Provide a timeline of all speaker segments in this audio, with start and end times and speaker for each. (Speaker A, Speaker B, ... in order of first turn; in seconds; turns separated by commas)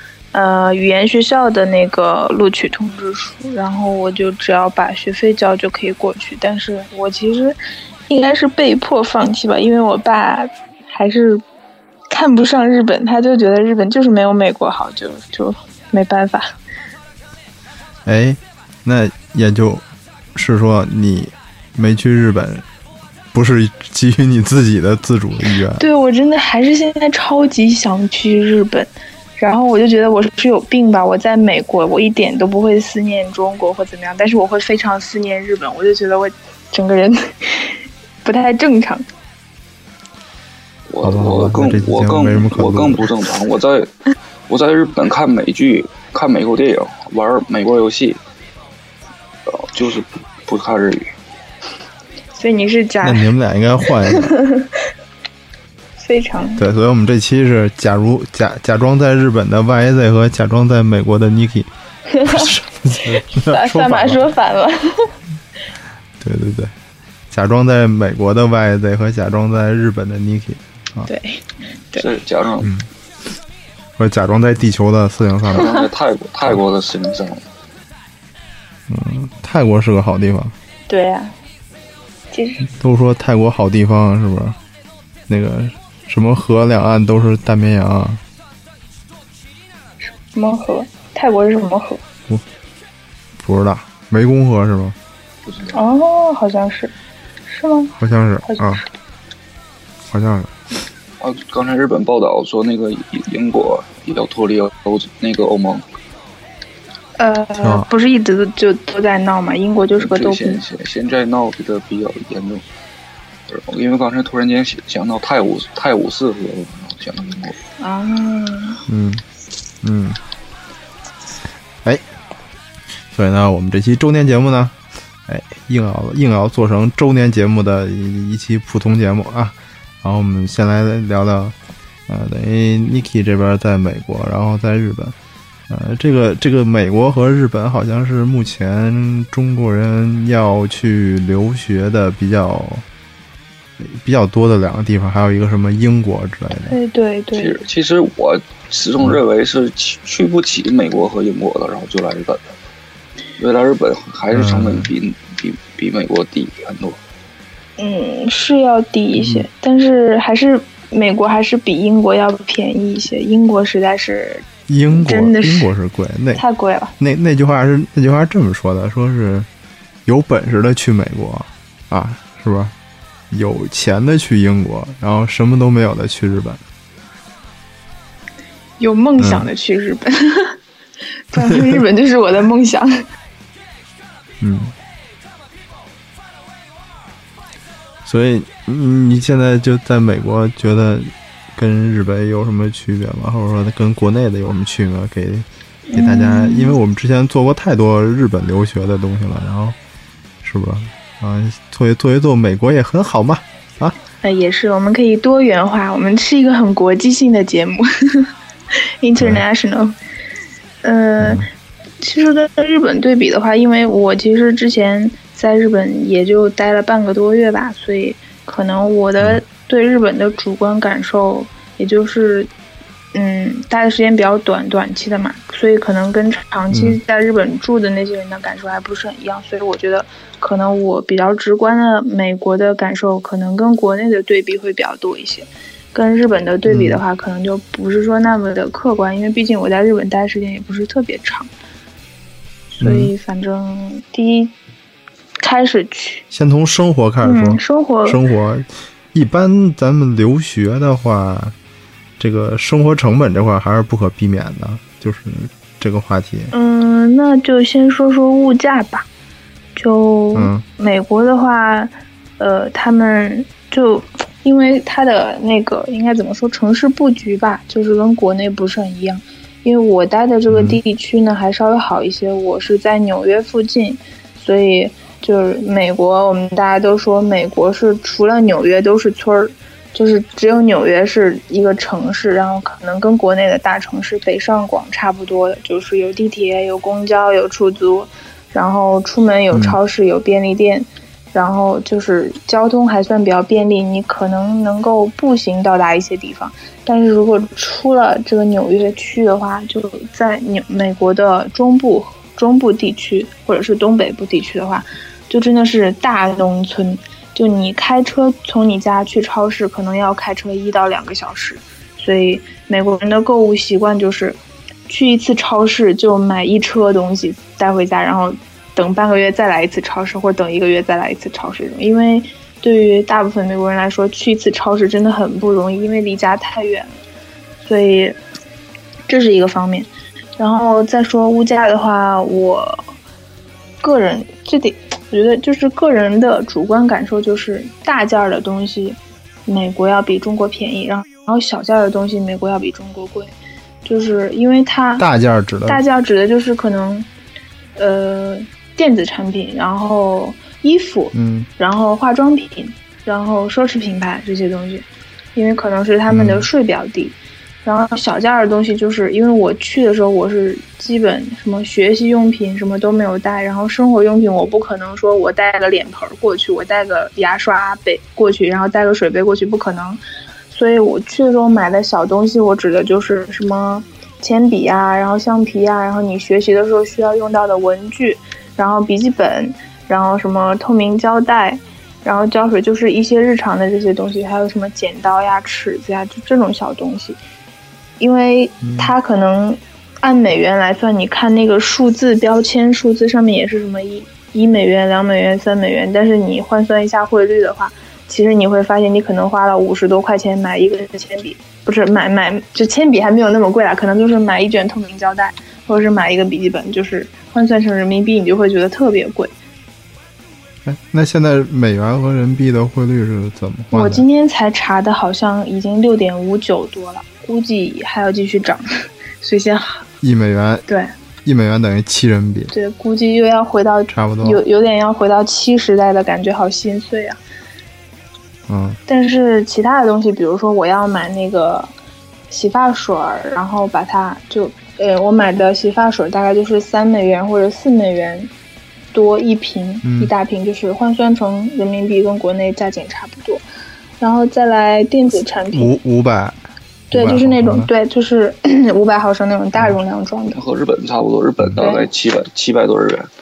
Speaker A: 0.3-7.6, Speaker A: 8.1-11.4, Speaker A: 12.1-16.5, Speaker B: 18.0-19.8, Speaker B: 20.3-22.6, Speaker B: 23.3-25.8, Speaker A: 25.7-39.0, Speaker C: 40.9-43.9, Speaker B: 41.0-43.1, Speaker C: 44.5-48.2, Speaker C: 49.5-51.1, Speaker A: 52.3-53.3, Speaker B: 53.0-54.3, Speaker A: 54.1-54.8, Speaker A: 56.0-56.6, Speaker B: 56.6-61.7, Speaker A: 62.1-62.5, Speaker B: 62.2-64.2, Speaker A: 63.0-65.1, Speaker B: 66.2-66.7, Speaker B: 67.3-71.1, Speaker A: 71.1-72.0, Speaker C: 72.0-72.7, Speaker B: 72.6-72.9, Speaker B: 74.0-75.7, Speaker C: 75.5-77.4, Speaker B: 78.9-80.5, Speaker A: 80.9-81.3, Speaker A: 82.3-82.7, Speaker B: 82.7-84.6, Speaker B: 85.3-88.2, Speaker A: 90.3-92.0, Speaker B: 93.4-95.0, Speaker C: 95.5-95.8, Speaker A: 95.7-96.9, Speaker A: 97.5-98.8, Speaker B: 98.0-98.8, Speaker B: 100.1-100.5, Speaker C: 101.2-105.8, Speaker A: 107.2-110.6, Speaker B: 107.6-107.9, Speaker C: 110.0-112.6, Speaker C: 113.5-117.6, Speaker A: 117.8-118.8, Speaker B: 118.9-119.2, Speaker B: 119.8-120.2, Speaker B: 123.1-124.7, Speaker B: 125.3-131.5, Speaker B: 132.1-135.2, Speaker B: 135.7-142.8, Speaker B: 143.8-146.8, Speaker A: 146.6-147.6, Speaker C: 147.3-152.5, Speaker C: 153.4-157.0, Speaker B: 154.3-154.9, Speaker A: 157.8-165.7, Speaker B: 159.2-159.5, Speaker B: 164.7-166.4, Speaker A: 166.3-166.9, Speaker B: 167.0-169.5, Speaker B: 170.1-172.7, Speaker B: 173.3-176.6, Speaker A: 178.8-180.6, Speaker B: 179.2-179.5, Speaker A: 181.3-183.0, Speaker B: 181.4-181.8, Speaker B: 184.4-184.7, Speaker B: 188.0-199.8, Speaker A: 195.9-196.8, Speaker B: 200.4-203.9, Speaker A: 204.2-208.3, Speaker A: 209.0-209.9, Speaker B: 209.2-209.4, Speaker A: 210.8-211.4, Speaker B: 211.2-211.5, Speaker A: 212.0-222.5, Speaker A: 223.1-241.5, Speaker B: 226.7-227.0, Speaker B: 236.7-237.0, Speaker A: 242.7-244.5, Speaker B: 242.8-243.1, Speaker A: 245.4-246.2, Speaker B: 246.3-251.5, Speaker A: 247.2-248.2, Speaker B: 252.2-256.5, Speaker A: 256.5-259.1, Speaker A: 259.8-326.9, Speaker B: 260.3-260.6, Speaker B: 270.5-270.8, Speaker B: 289.5-289.8, Speaker A: 327.6-328.2, Speaker A: 329.1-332.8, Speaker A: 333.8-343.3, Speaker A: 343.8-345.1, Speaker B: 345.0-345.8, Speaker A: 345.7-347.1, Speaker A: 347.8-387.2, Speaker B: 351.1-351.5, Speaker B: 356.1-356.5, Speaker A: 388.0-409.3, Speaker B: 388.6-388.9, Speaker B: 410.6-414.0, Speaker A: 413.7-418.6, Speaker A: 419.2-419.9, Speaker B: 420.0-420.6, Speaker A: 420.7-420.9, Speaker B: 421.2-422.5, Speaker A: 422.5-427.2, Speaker B: 423.9-424.4, Speaker B: 428.5-428.8, Speaker A: 428.9-431.7, Speaker A: 432.3-438.3, Speaker A: 438.9-443.4, Speaker B: 439.8-440.1, Speaker A: 444.0-445.7, Speaker B: 445.5-446.4, Speaker B: 446.9-447.7, Speaker A: 446.9-450.4, Speaker C: 450.3-453.1, Speaker A: 451.6-451.9